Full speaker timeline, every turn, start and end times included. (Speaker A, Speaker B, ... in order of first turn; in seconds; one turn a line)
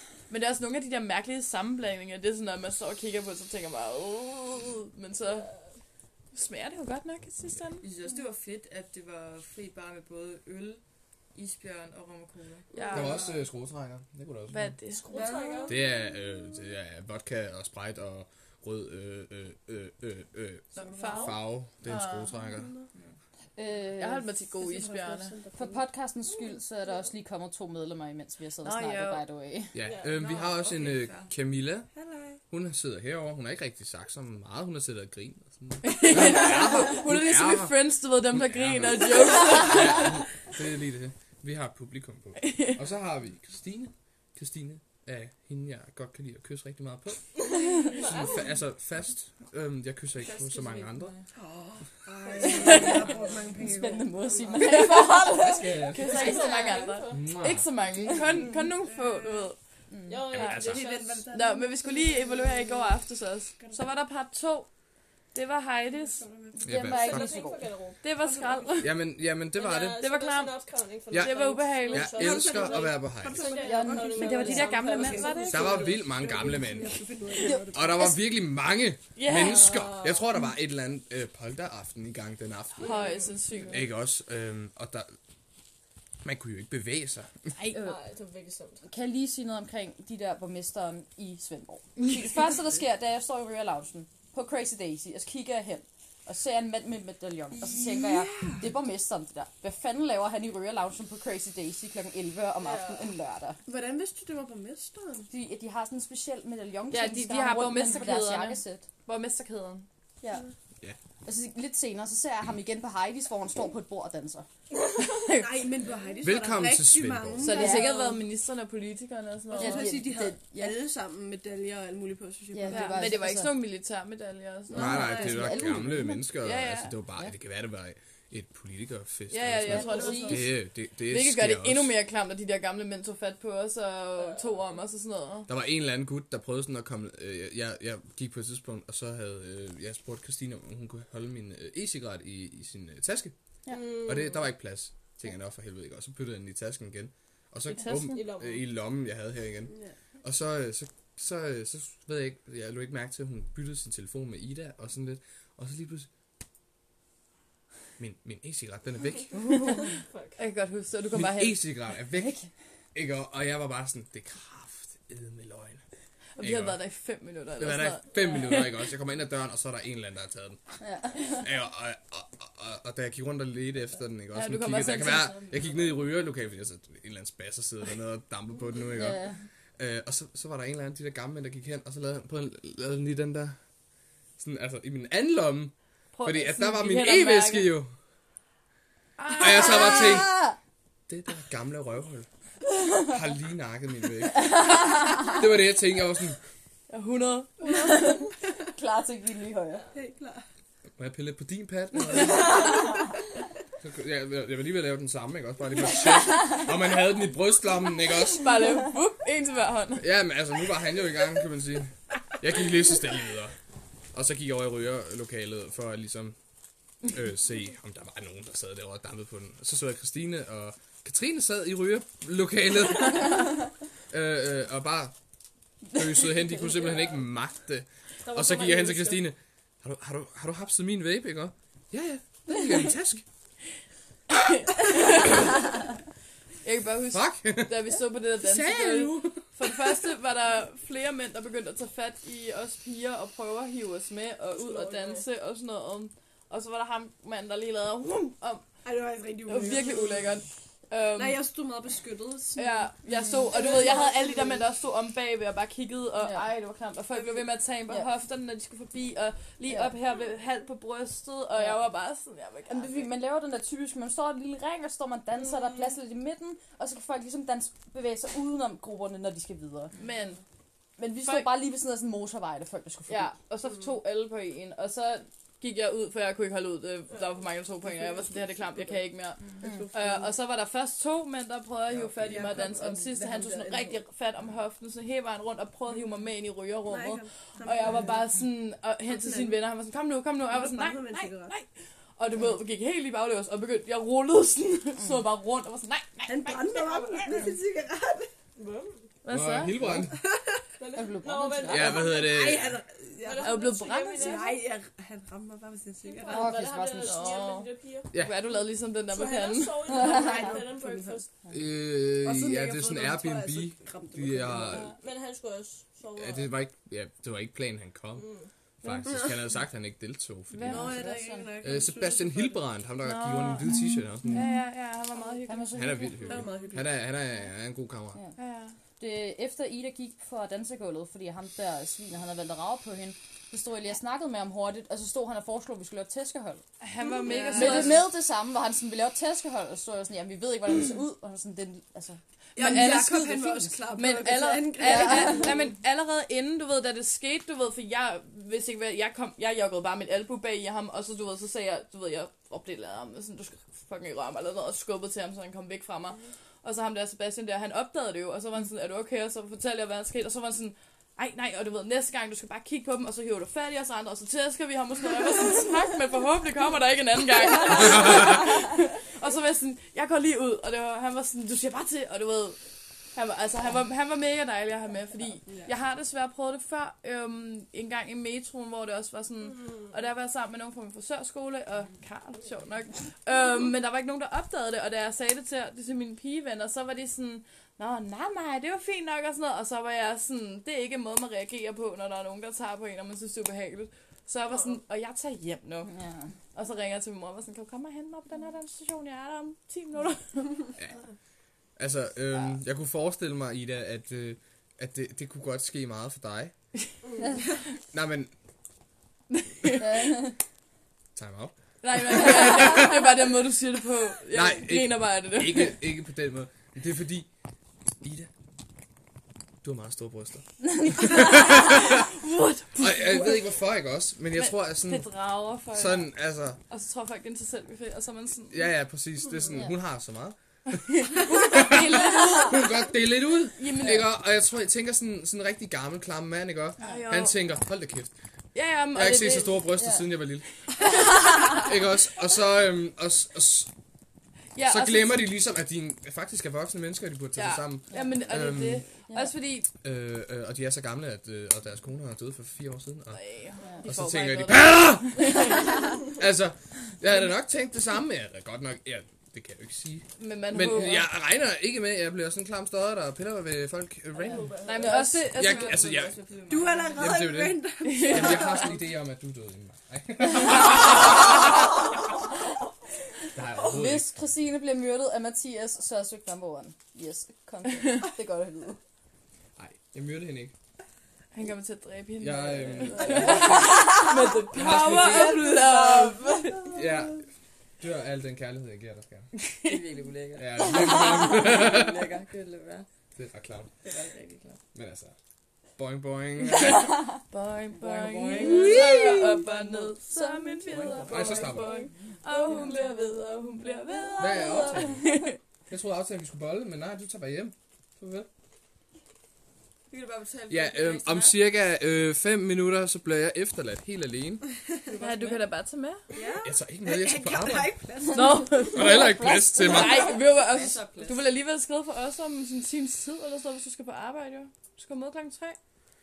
Speaker A: 0.3-5.5
Speaker A: 6.3-7.9
Speaker B: 7.8-10.8
Speaker B: 11.3-12.7
Speaker C: 12.7-13.2
Speaker A: 12.8-13.3
Speaker D: 12.9-13.3
Speaker E: 12.9-14.8
Speaker A: 14.5-15.4
Speaker C: 15.1-15.8
Speaker D: 15.1-15.8
Speaker E: 15.7-22.7
Speaker A: 20.8-22.4
Speaker D: 20.8-21.4
Speaker D: 22.5-22.9
Speaker F: 23.6-24.3
Speaker A: 24.0-25.4
Speaker D: 24.6-25.9
Speaker F: 25.5-29.8
Speaker A: 28.6-29.2
Speaker E: 29.7-31.9
Speaker C: 29.8-30.3
Speaker B: 30.5-31.2
Speaker D: 31.9-32.4
Speaker E: 32.5-37.8
Speaker A: 35.8-40.2
Speaker E: 38.3-47.3
Speaker A: 42.4-42.8
Speaker C: 47.6-48.5
Speaker E: 48.1-51.1
Speaker B: 50.4-51.1
Speaker D: 51.4-54.1
Speaker A: 52.4-53.1
Speaker F: 52.5-56.9
Speaker C: 52.8-53.3
Speaker C: 54.2-54.9
Speaker A: 54.6-59.6
Speaker E: 55.4-56.1
Speaker C: 56.0-57.3
Speaker E: 57.1-57.7
Speaker D: 58.1-59.5
Speaker F: 59.9-60.2
Speaker C: 60.1-61.3
Speaker E: 60.3-60.9
Speaker A: 60.4-60.7
Speaker D: 60.6-63.0
Speaker A: 61.3-64.7
Speaker D: 63.6-63.9
Speaker A: 65.3-66.2
Speaker D: 65.9-66.7
Speaker F: 66.6-67.7
Speaker E: 66.7-67.4
Speaker C: 66.9-68.0
Speaker A: 68.0-69.0
Speaker D: 68.2-68.8
Speaker E: 68.8-70.0
Speaker C: 69.5-75.9
Speaker A: 70.0-70.6
Speaker E: 71.1-73.5
Speaker A: 71.1-72.3
Speaker D: 72.1-78.1
Speaker F: 73.6-74.9
Speaker A: 74.2-76.0
Speaker E: 75.5-77.0
Speaker F: 77.4-78.1
Speaker E: 77.7-85.2
Speaker A: 79.2-79.9
Speaker C: 79.3-80.2
Speaker A: 82.8-83.9
Speaker C: 82.8-83.3
Speaker E: 86.2-87.5
Speaker C: 87.7-88.8
Speaker F: 88.8-103.6
Speaker D: 97.5-98.7
Speaker C: 102.6-103.1
Speaker D: 103.7-105.3
Speaker F: 105.3-108.8
Speaker A: 106.9-109.9
Speaker F: 111.2-114.5
Speaker D: 115.3-118.2
Speaker E: 116.2-117.6
Speaker A: 117.4-120.0
Speaker F: 117.5-118.1
Speaker D: 119.5-123.2
Speaker F: 119.5-120.8
Speaker F: 122.5-123.6
Speaker A: 122.7-125.5
Speaker D: 124.7-125.8
Speaker E: 124.7-131.9
Speaker F: 124.8-126.3
Speaker A: 126.4-127.0
Speaker A: 129.3-135.5
Speaker F: 129.7-130.4
Speaker D: 130.0-130.3
Speaker E: 135.5-143.3
Speaker C: 143.7-144.5
Speaker E: 144.0-156.1
Speaker A: 147.7-148.3
Speaker C: 147.8-148.7
Speaker E: 158.0-159.8
Speaker A: 159.4-161.6
Speaker C: 159.9-160.4
Speaker E: 161.1-162.4
Speaker F: 162.1-162.5
Speaker E: 162.9-165.8
Speaker A: 166.4-168.8
Speaker E: 166.4-166.8
Speaker E: 167.6-170.6
Speaker F: 170.8-171.4
Speaker E: 171.3-179.2
Speaker A: 174.3-175.7
Speaker F: 178.9-179.4
Speaker E: 179.8-183.6
Speaker E: 184.4-187.9
Speaker A: 186.2-187.7
Speaker A: 189.2-190.3
Speaker F: 189.3-190.6
Speaker E: 189.3-190.4
Speaker E: 191.1-192.3
Speaker E: 193.0-194.7
Speaker E: 195.2-196.4
Speaker A: 196.9-198.2
Speaker F: 197.7-199.9
Speaker D: 199.9-200.4
Speaker E: 201.0-202.7
Speaker E: 203.8-208.5
Speaker A: 208.3-210.1
Speaker E: 210.0-213.6
Speaker E: 214.1-216.4
Speaker E: 217.1-223.5
Speaker E: 224.1-225.1
Speaker E: 225.9-233.2
Speaker C: 228.2-229.3
Speaker A: 234.4-235.5
Speaker A: 236.6-248.7
Speaker E: 237.1-237.8
Speaker E: 238.4-239.7
Speaker C: 244.6-245.3
Speaker D: 248.8-250.4
Speaker A: 249.4-251.4
Speaker D: 251.2-254.7
Speaker A: 252.6-263.1
Speaker F: 253.1-253.5
Speaker F: 256.2-256.5
Speaker F: 259.7-259.9
Speaker F: 261.6-261.9
Speaker F: 262.7-269.9
Speaker A: 270.0-270.4
Speaker F: 271.0-273.4
Speaker A: 271.2-271.5
Speaker A: 273.1-297.5
Speaker C: 277.1-277.4
Speaker D: 278.1-279.0
Speaker D: 279.6-280.3
Speaker F: 279.6-279.9
Speaker D: 282.1-284.0
Speaker D: 286.9-288.3
Speaker D: 289.1-289.6
Speaker D: 290.5-291.5
Speaker D: 296.3-298.3
Speaker C: 298.6-299.1
Speaker A: 299.2-300.0
Speaker E: 299.3-300.2
Speaker D: 299.9-300.6
Speaker C: 300.8-302.2
Speaker F: 300.9-302.1
Speaker E: 301.7-302.8
Speaker D: 302.0-306.5
Speaker C: 303.2-304.6
Speaker A: 303.4-304.5
Speaker C: 306.0-308.1
Speaker F: 306.3-307.3
Speaker A: 307.0-310.1
Speaker C: 309.1-311.3
Speaker D: 309.9-311.2
Speaker E: 311.5-314.9
Speaker D: 312.2-314.9
Speaker C: 315.0-316.5
Speaker E: 316.2-318.3
Speaker C: 318.2-318.5
Speaker E: 318.8-321.0
Speaker D: 319.1-319.3
Speaker A: 320.6-320.9
Speaker D: 320.6-322.6
Speaker F: 320.7-321.6
Speaker E: 321.6-324.5
Speaker A: 323.0-326.0
Speaker F: 323.7-324.6
Speaker F: 325.5-326.4
Speaker E: 325.7-328.2
Speaker D: 326.3-327.1
Speaker A: 328.4-328.8
Speaker F: 329.0-336.6
Speaker A: 336.8-338.1
Speaker D: 337.0-338.0
Speaker F: 337.5-343.8
Speaker D: 342.6-345.6
Speaker A: 342.6-372.6
Speaker F: 344.8-345.5
Speaker A: 373.1-395.9
Speaker F: 395.9-396.3
Speaker A: 396.5-400.7
Speaker E: 401.8-406.5
Speaker E: 407.9-408.3
Speaker A: 409.3-410.2
Speaker F: 409.8-410.4
Speaker E: 411.1-413.2
Speaker A: 411.8-415.8
Speaker E: 414.3-417.3
Speaker E: 418.0-418.3
Speaker E: 419.6-422.1
Speaker A: 420.8-423.5
Speaker E: 422.8-425.1
Speaker A: 424.4-426.1
Speaker E: 425.7-426.6
Speaker A: 426.7-428.6
Speaker E: 428.5-438.1
Speaker A: 430.8-432.9
Speaker A: 433.6-434.1
Speaker A: 436.8-437.4
Speaker A: 438.6-439.7
Speaker E: 438.9-443.7
Speaker F: 439.8-440.1
Speaker A: 444.6-445.3
Speaker E: 444.6-448.9
Speaker A: 447.4-449.7
Speaker F: 447.9-448.2
Speaker E: 449.8-453.2
Speaker A: 453.1-455.9
Speaker E: 453.9-464.6
Speaker A: 460.2-461.1
Speaker C: 464.2-465.1
Speaker A: 464.6-467.1
Speaker E: 465.2-466.1
Speaker D: 466.5-468.8
Speaker E: 466.9-471.6
Speaker A: 467.8-468.7
Speaker E: 473.3-474.1
Speaker F: 473.6-478.8
Speaker E: 479.6-480.5
Speaker A: 481.3-486.9
Speaker E: 482.2-485.5
Speaker B: 483.0-483.5
Speaker D: 483.2-484.0
Speaker D: 484.5-486.8
Speaker E: 486.7-487.2
Speaker E: 487.8-489.3
Speaker B: 489.6-492.9
Speaker E: 490.4-492.0
Speaker E: 493.2-493.7
Speaker B: 493.8-494.6
Speaker E: 494.7-495.1
Speaker E: 495.8-496.9
Speaker A: 496.6-505.4
Speaker B: 497.7-499.9
Speaker F: 498.3-499.5
Speaker F: 500.2-500.7
Speaker B: 500.6-502.2
Speaker E: 501.0-501.8
Speaker E: 504.2-508.3
Speaker E: 510.5-514.5
Speaker A: 514.9-516.0
Speaker B: 515.0-515.4
Speaker D: 516.1-518.8
Speaker E: 516.4-517.8
Speaker A: 518.1-525.6
Speaker E: 518.7-520.2
Speaker F: 518.9-520.1
Speaker B: 520.1-521.3